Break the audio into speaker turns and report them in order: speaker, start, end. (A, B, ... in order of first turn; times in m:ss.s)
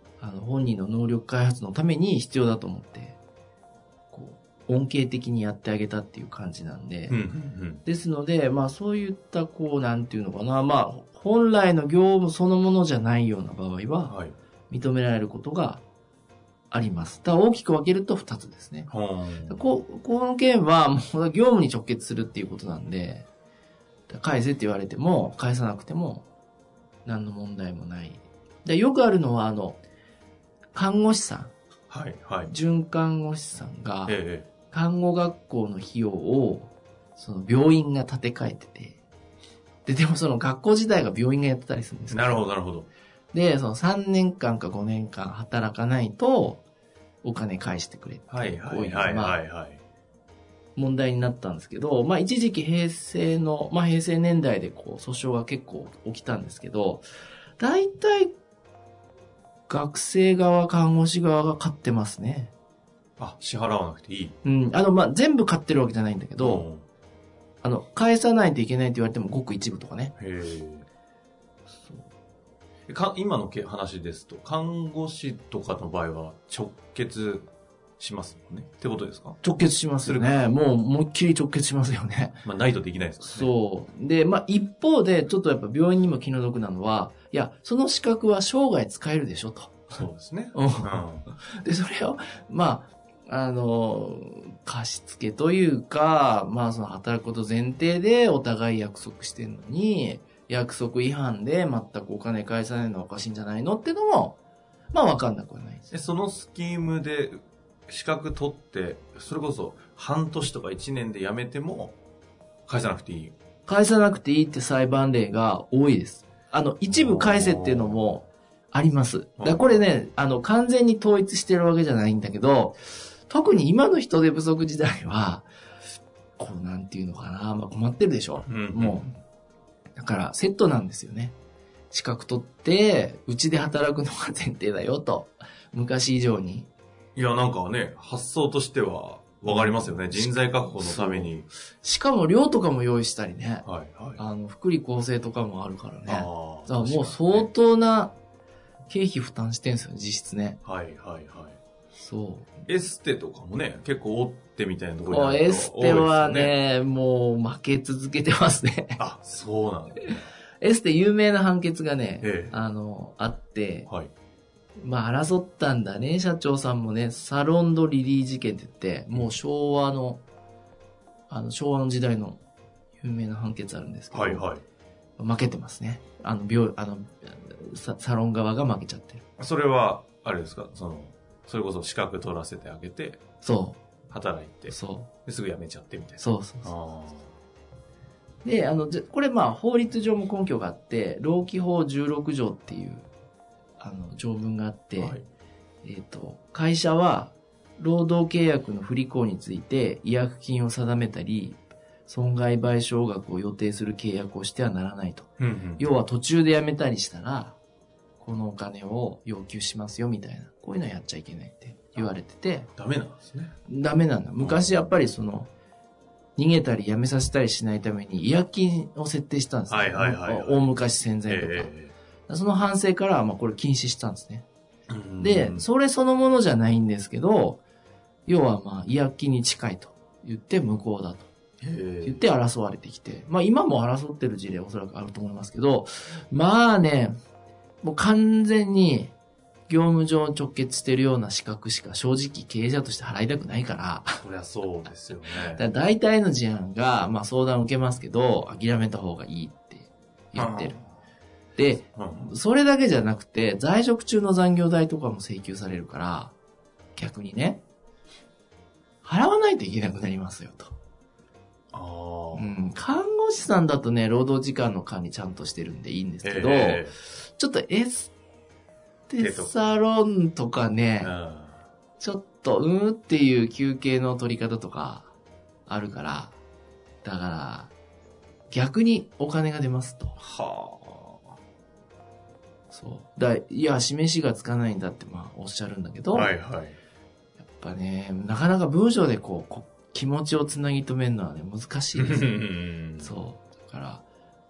0:00.2-0:03.2 A
0:04.1-0:07.2 A
0:07.1-0:07.8 B
0:07.8-0:14.1 A
0:14.1-0:14.4 B
0:14.7-0:15.8 A
0:16.7-0:18.9 A
0:18.9-0:19.6 B
0:19.5-0:23.2 A
0:24.1-0:26.2 A
0:27.0-0:29.8 A
0:30.7-0:31.5 A
0:31.9-0:32.5 B
0:32.5-0:34.2 A
0:34.1-0:34.5 B
0:34.7-0:39.0 A
0:39.8-0:42.4 A
0:42.1-0:42.9 B
0:43.3-0:46.6 A
0:47.2-0:49.4 A
0:48.3-0:49.8 B
0:50.7-0:57.0 A
0:57.6-0:58.3 A
0:59.7-1:02.5 A
1:03.2-1:04.4 B
1:04.4-1:06.7 A
1:06.4-1:06.8 B
1:07.6-1:10.1 A
1:10.2-1:10.9 B
1:11.7-1:12.0 A
1:12.9-1:19.4 B
1:19.4-1:22.4 A
1:20.0-1:20.4 B
1:22.4-1:23.5 B
1:23.2-1:44.4 A
1:29.9-1:31.3 B
1:44.9-1:45.9 A
1:45.9-1:52.0 B
1:52.7-1:53.3 B
1:53.6-2:05.5 A
1:56.9-1:58.0 B
1:59.4-1:59.8 B
2:06.4-2:09.1 A
2:08.5-2:09.2 B
2:10.0-2:11.3 A
2:11.9-2:16.7 A
2:17.1-2:21.5 B
2:19.4-2:23.6 A
2:23.6-2:24.2 B
2:24.2-2:28.1 A
2:26.0-2:27.5 B
2:28.9-2:30.6 A
2:30.6-2:31.6 B
2:32.0-2:32.6 A
2:32.6-2:36.5 B
2:35.1-2:39.0 A
2:39.0-2:40.2 B
2:40.1-2:43.9 A
2:42.2-2:42.5 B
2:44.8-2:50.2 A
2:51.3-2:52.4 A
2:53.0-2:54.4 A
2:54.1-2:54.6 B
2:55.2-2:59.2 A
2:59.4-3:03.2 B
3:03.4-3:03.8 A
3:04.1-3:07.3 B
3:04.7-3:05.1 A
3:06.2-3:06.7 A
3:08.4-3:13.1 A
3:13.8-3:15.2 A
3:15.0-3:15.2 B
3:15.8-3:27.6 A
3:25.4-3:25.8 B
3:28.2-3:32.7 A
3:32.8-3:33.5 B
3:33.7-3:35.5 A
3:34.4-3:34.8 B
3:36.4-3:41.7 A
3:39.7-3:40.7 B
3:41.3-3:41.9 B
3:42.3-3:44.4 A
3:44.9-3:45.6 B
3:45.2-3:47.6 A
3:48.2-3:51.3 A
3:51.6-3:52.2 B
3:52.0-3:57.1 A
3:57.8-3:59.1 A
3:59.7-4:04.2 A
4:04.2-4:05.6 B
4:05.5-4:10.8 A
4:10.3-4:11.0 B
4:11.6-4:16.3 A
4:12.0-4:12.3 B
4:17.0-4:17.6 A
4:19.0-4:20.7 A
4:21.7-4:22.6 B
4:22.3-4:28.1 A
4:26.2-4:26.9 B
4:29.1-4:31.1 A
4:29.2-4:29.5 B
4:31.0-4:31.6 B
4:32.0-4:35.1 A
4:35.7-4:36.3 A
4:37.0-4:37.7 A
4:38.5-4:40.2 A
4:40.2-4:41.2 B
4:42.7-4:46.3 A
4:46.1-4:46.8 B
4:47.4-4:54.0 A
4:51.9-4:53.1 B